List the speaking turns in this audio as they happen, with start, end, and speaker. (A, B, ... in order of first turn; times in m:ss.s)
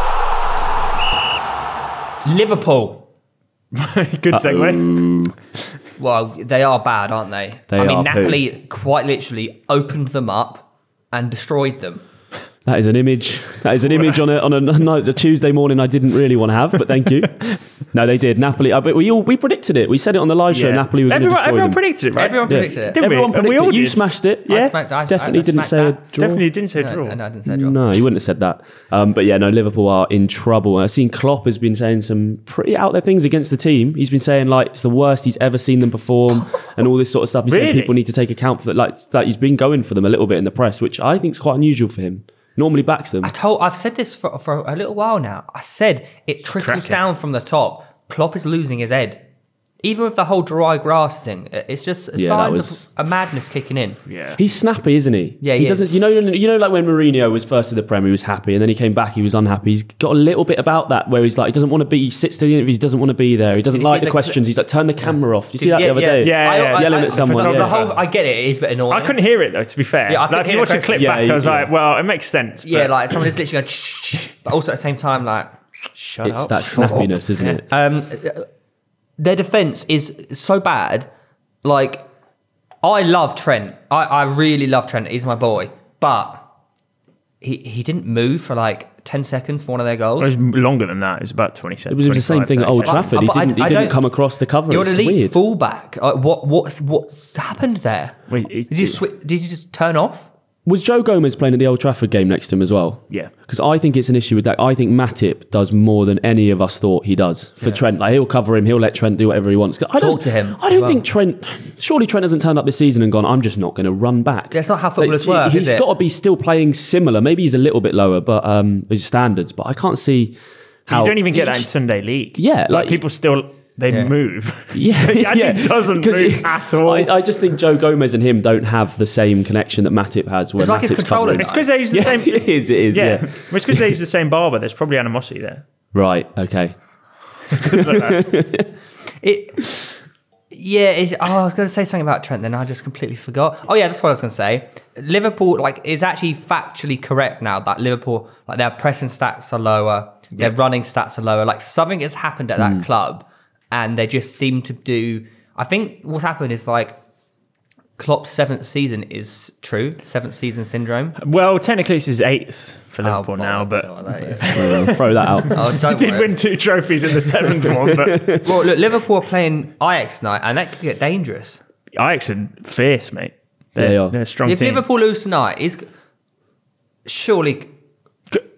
0:02.2-0:03.1 A
0:03.7-0:05.3 B
0:04.3-0:05.3 C
0:06.0-0:12.0 A
0:07.7-0:08.4 C
0:12.6-0:21.8 C
0:13.9-0:14.2 B
0:20.5-0:24.7 B
0:22.1-0:23.0 A
0:22.5-0:26.5 C
0:24.5-0:26.0 A
0:26.1-0:27.2 B
0:26.7-0:27.8 A
0:27.4-0:43.3 C
0:37.4-0:37.9 B
0:43.2-0:49.2 A
0:46.4-0:47.0 B
0:49.8-0:54.0 A
0:52.1-0:52.8 C
0:54.0-0:54.4 B
0:54.4-1:07.8 C
0:55.4-0:55.9 A
1:03.7-1:04.4 A
1:05.5-1:09.2 A
1:06.2-1:08.0 B
1:08.9-1:13.2 B
1:10.1-1:11.3 A
1:10.9-1:11.7 C
1:12.6-1:15.5 A
1:16.0-1:16.8 B
1:16.2-1:17.7 C
1:16.6-1:18.5 A
1:19.2-1:21.1 A
1:21.6-1:22.1 A
1:22.8-1:26.4 A
1:27.4-1:30.3 A
1:30.2-1:33.3 B
1:31.9-1:35.4 C
1:32.8-1:34.1 A
1:34.7-1:40.3 A
1:38.3-1:39.0 B
1:40.6-2:01.7 C
1:50.0-1:51.0 A
1:54.5-1:55.9 A
2:00.9-2:07.2 B
2:02.4-2:03.0 C
2:03.9-2:04.1 A
2:04.7-2:13.9 C
2:10.6-2:11.7 A
2:11.4-2:15.6 B
2:15.9-2:17.0 C
2:17.5-2:18.7 C
2:17.6-2:18.2 B
2:19.2-2:19.9 A
2:20.5-2:37.0 A
2:32.6-2:32.8 C
2:38.0-2:41.2 A
2:41.2-2:48.4 B
2:43.0-2:44.9 A
2:44.5-2:45.8 C
2:45.5-2:46.4 A
2:47.7-2:48.5 C
2:48.4-2:51.6 A
2:51.9-2:54.8 B
2:53.8-2:54.2 C
2:54.4-2:55.9 A
2:57.0-2:57.7 A